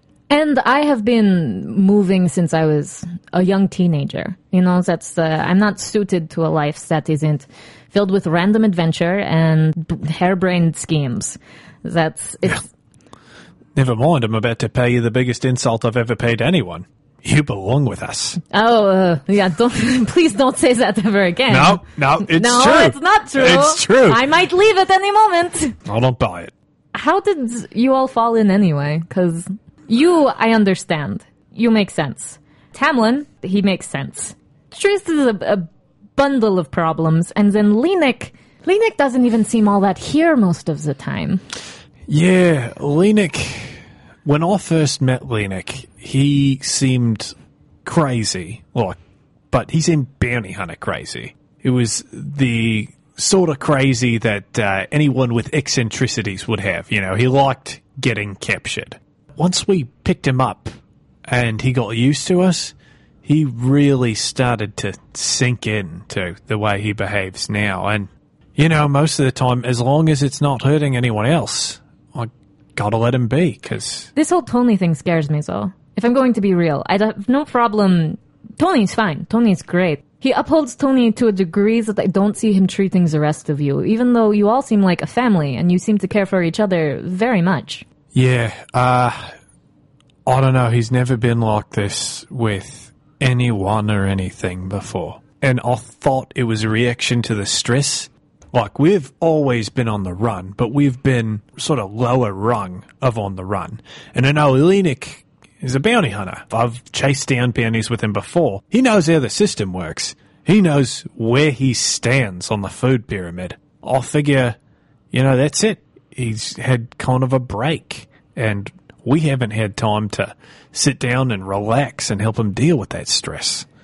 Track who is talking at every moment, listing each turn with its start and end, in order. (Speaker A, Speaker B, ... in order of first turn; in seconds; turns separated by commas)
Speaker A: 0.3-12.7, Speaker B: 13.8-18.4, Speaker A: 18.5-25.8, Speaker B: 21.5-24.2, Speaker B: 25.9-26.5, Speaker A: 26.9-41.4, Speaker B: 42.1-49.0, Speaker B: 49.5-60.7, Speaker B: 61.2-74.1, Speaker A: 74.1-87.8, Speaker B: 88.1-89.3, Speaker B: 90.2-114.6, Speaker B: 115.1-123.7